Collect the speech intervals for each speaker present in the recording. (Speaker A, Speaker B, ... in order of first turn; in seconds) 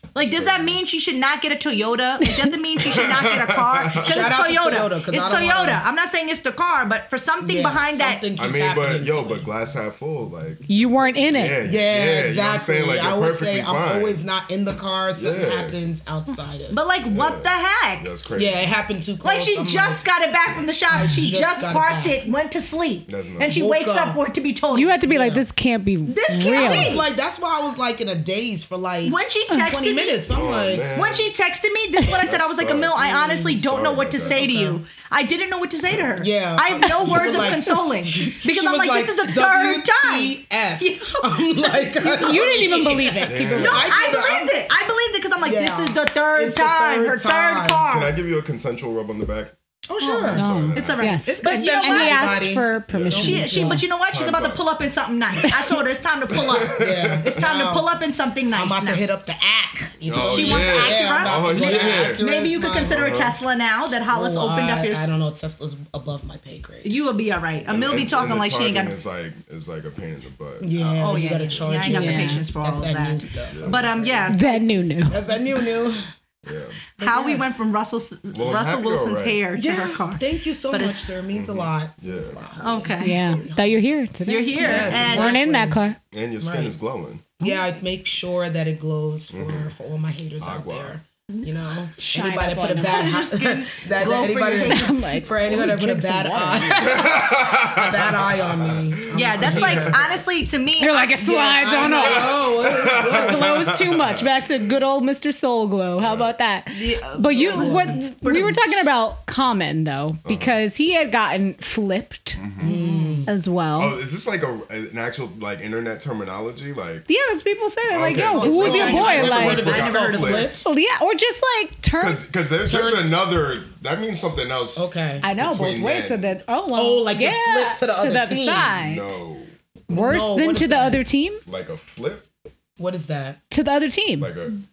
Speaker A: 0.1-8.2, 16.7-18.1, 19.2-25.0, 26.1-27.1, 29.0-30.2, 30.9-48.1, 50.0-52.5, 53.1-59.0, 60.2-65.1, 66.8-69.0, 71.0-74.7, 77.0-81.0, 82.6-83.3, 84.2-85.4, 92.8-95.0, 99.1-102.2, 106.7-108.8, 112.6-113.3, 118.4-120.6
Speaker B: 0.2-0.8, 2.8-4.3, 8.4-14.2, 15.1-15.8, 17.1-18.7, 23.1-23.5, 30.3-31.3, 32.1-34.4, 43.2-43.9, 47.9-49.5, 50.2-51.1, 52.9-53.4, 54.0-54.6, 56.3-57.4, 60.0-62.2, 62.8-63.4, 67.7-71.6, 73.5-73.9, 76.4-76.8, 78.3-79.4, 81.3-82.5, 84.7-85.2, 86.1-87.3, 89.3-89.7, 90.4-91.0, 96.7-100.1, 101.9-104.3, 106.0-106.3, 110.2-110.6, 112.3-112.7, 113.7-117.1, 117.9-120.7, 122.0-126.3, 128.7-129.5, 131.4-132.2, 134.2-134.6
Speaker C: 4.0-5.8, 7.4-9.5, 11.6-16.8, 18.3-20.0, 20.9-22.2, 23.4-24.2, 25.1-25.4, 26.5-30.9, 33.0-33.3, 34.2-34.8, 36.2-44.6, 45.4-47.9, 49.9-53.8, 56.7-57.9, 58.5-63.1, 64.1-66.9, 70.6-74.3, 75.0-76.1, 77.0-77.5, 79.5-83.9, 84.5-85.8, 86.4-86.7, 87.4-100.2, 101.4-103.5, 107.3-108.0, 112.6-113.3, 118.3-120.7, 122.6-123.1, 124.8-125.2, 126.7-128.8, 129.9-131.0, 132.8-133.4
Speaker D: 10.7-11.6, 24.7-26.9, 42.0-43.9, 50.3-53.8, 71.8-72.4, 74.3-75.2, 83.0-86.0, 92.0-93.2, 94.1-97.0, 100.8-112.7, 113.2-114.0, 117.1-119.7, 120.6-122.2, 125.2-129.0, 129.9-131.4, 133.5-134.3